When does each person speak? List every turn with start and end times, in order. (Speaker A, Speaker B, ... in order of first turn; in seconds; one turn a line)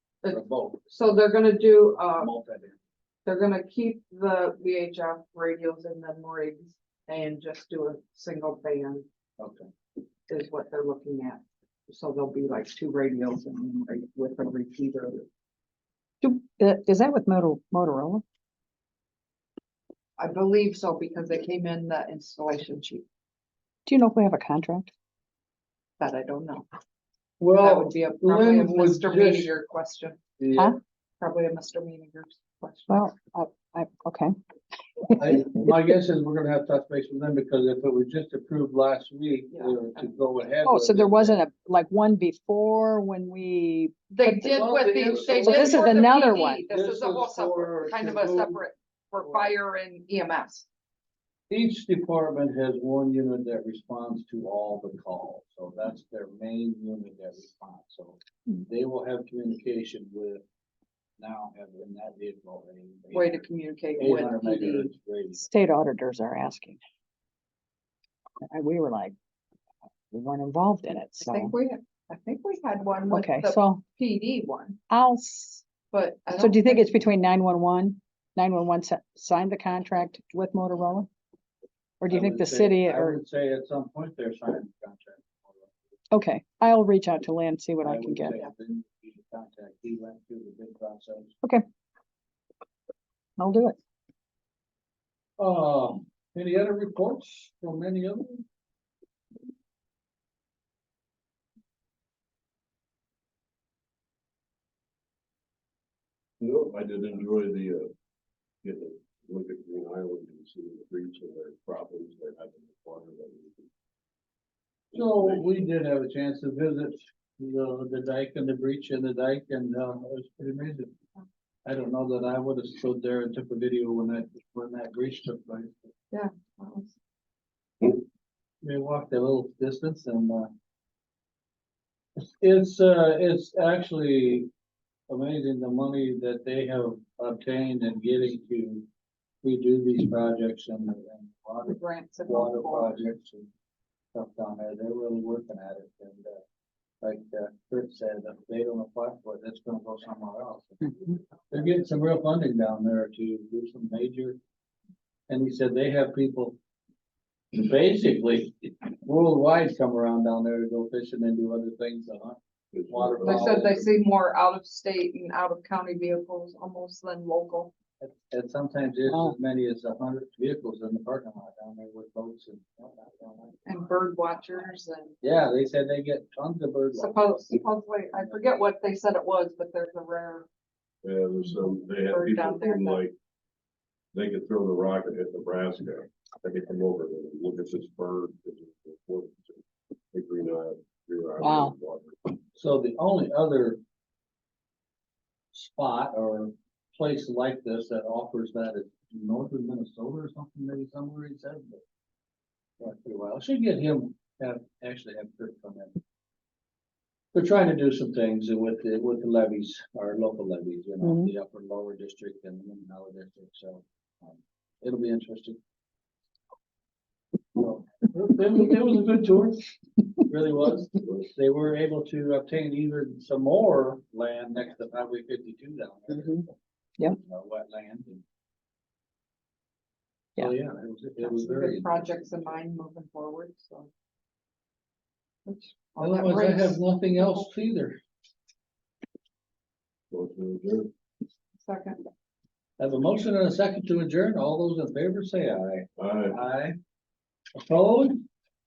Speaker A: 0.2-2.3
Speaker B: 0.3-0.8
Speaker B: 2.2-2.8
Speaker A: 3.2-9.1
Speaker B: 9.4-9.7
Speaker A: 10.3-15.3
Speaker C: 16.2-18.2
Speaker A: 20.2-23.1
Speaker C: 23.9-24.9
Speaker A: 26.0-26.7
Speaker B: 27.4-29.5
Speaker A: 27.6-30.2
Speaker B: 30.4-30.8
Speaker A: 31.2-33.1
Speaker C: 32.9-34.3
Speaker B: 35.1-41.4
Speaker A: 39.5-40.0
Speaker C: 40.6-46.6
Speaker A: 44.1-50.6
Speaker B: 44.5-46.1
Speaker B: 46.7-48.6
Speaker B: 49.2-49.5
Speaker B: 51.5-60.4
Speaker B: 61.2-63.5
Speaker A: 63.1-64.9
Speaker B: 64.0-65.5
Speaker C: 65.3-66.8
Speaker C: 68.5-69.1
Speaker C: 70.1-71.5
Speaker A: 71.2-74.8
Speaker C: 73.1-73.8
Speaker C: 74.9-75.6
Speaker A: 75.9-77.0
Speaker C: 76.3-81.1
Speaker C: 82.0-83.2
Speaker B: 82.1-85.7
Speaker C: 86.1-88.3
Speaker B: 87.8-91.3
Speaker C: 93.4-93.8
Speaker B: 95.4-98.5
Speaker D: 106.4-107.9
Speaker D: 108.6-113.7
Speaker D: 114.9-115.5
Speaker B: 114.9-120.9
Speaker B: 121.6-125.9
Speaker A: 126.1-126.9
Speaker B: 128.6-130.5
Speaker B: 132.4-134.5
Speaker B: 135.1-138.8
Speaker B: 139.4-143.5
Speaker A: 141.7-143.0
Speaker B: 144.1-146.4
Speaker B: 147.0-154.4
Speaker B: 155.3-156.6
Speaker B: 157.5-163.8
Speaker D: 162.7-163.7
Speaker A: 163.2-167.7
Speaker B: 168.0-173.6
Speaker A: 173.7-175.2
Speaker B: 175.2-177.4
Speaker A: 176.9-180.4
Speaker D: 181.0-183.1
Speaker A: 181.9-183.0
Speaker D: 184.1-192.2
Speaker C: 191.4-191.7
Speaker B: 192.5-193.8
Speaker B: 195.5-201.8
Speaker B: 202.8-206.0
Speaker B: 207.3-215.6
Speaker C: 211.0-211.3
Speaker B: 217.5-219.7
Speaker B: 220.2-226.5
Speaker C: 226.1-226.4
Speaker B: 227.0-228.2
Speaker B: 230.4-232.6
Speaker A: 231.2-233.9
Speaker A: 235.4-237.4
Speaker B: 236.0-238.0
Speaker D: 240.1-240.9
Speaker A: 241.6-242.0
Speaker B: 242.8-246.8
Speaker D: 246.0-246.4
Speaker B: 247.6-248.2